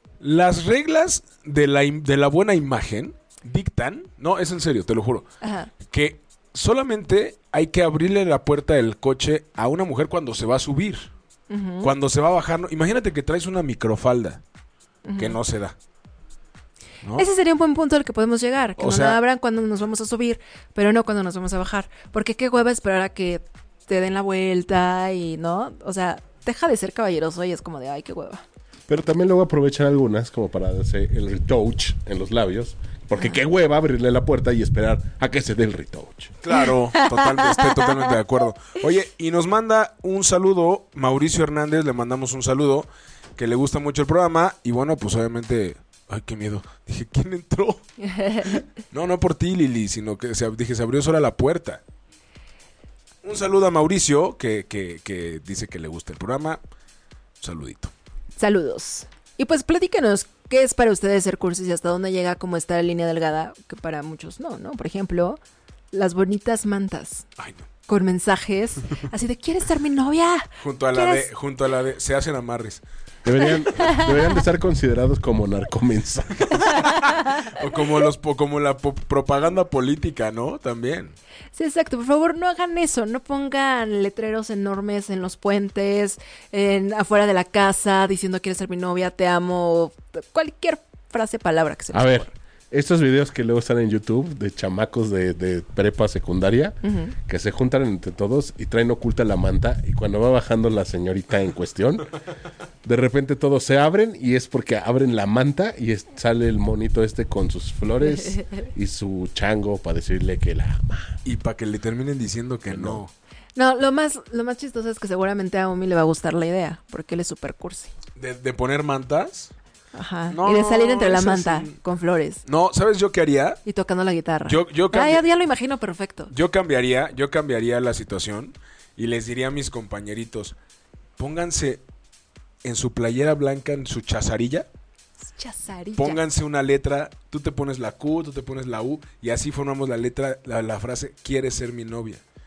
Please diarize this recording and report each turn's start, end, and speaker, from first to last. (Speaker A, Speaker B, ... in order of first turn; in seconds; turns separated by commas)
Speaker A: 0.2-5.3, Speaker B: 5.4-5.7, Speaker A: 5.8-11.1, Speaker B: 11.5-11.9, Speaker A: 11.8-14.4, Speaker B: 15.0-15.4, Speaker A: 15.2-15.8, Speaker B: 17.1-28.4, Speaker A: 18.8-19.2, Speaker C: 28.9-36.3, Speaker A: 36.4-47.8, Speaker B: 36.5-38.1, Speaker B: 48.0-48.6, Speaker A: 48.4-51.8, Speaker A: 53.2-56.6, Speaker A: 57.4-57.9, Speaker B: 58.4-65.4, Speaker B: 65.9-67.3, Speaker A: 67.4-67.7, Speaker B: 67.9-71.3, Speaker A: 70.6-72.8, Speaker C: 73.2-76.7, Speaker B: 73.7-74.2, Speaker B: 76.6-77.5, Speaker A: 76.6-81.1, Speaker B: 81.5-92.3, Speaker C: 91.9-102.1, Speaker B: 96.8-97.2, Speaker C: 102.8-111.2, Speaker A: 111.2-113.1, Speaker C: 112.7-113.0, Speaker B: 113.5-117.9, Speaker A: 118.2-119.5, Speaker B: 119.9-122.4, Speaker A: 120.3-121.8, Speaker A: 122.4-123.6, Speaker B: 123.6-126.3, Speaker A: 124.5-125.2, Speaker A: 126.3-130.5, Speaker A: 131.2-131.8, Speaker A: 132.6-134.7, Speaker B: 135.3-136.2, Speaker A: 136.0-142.2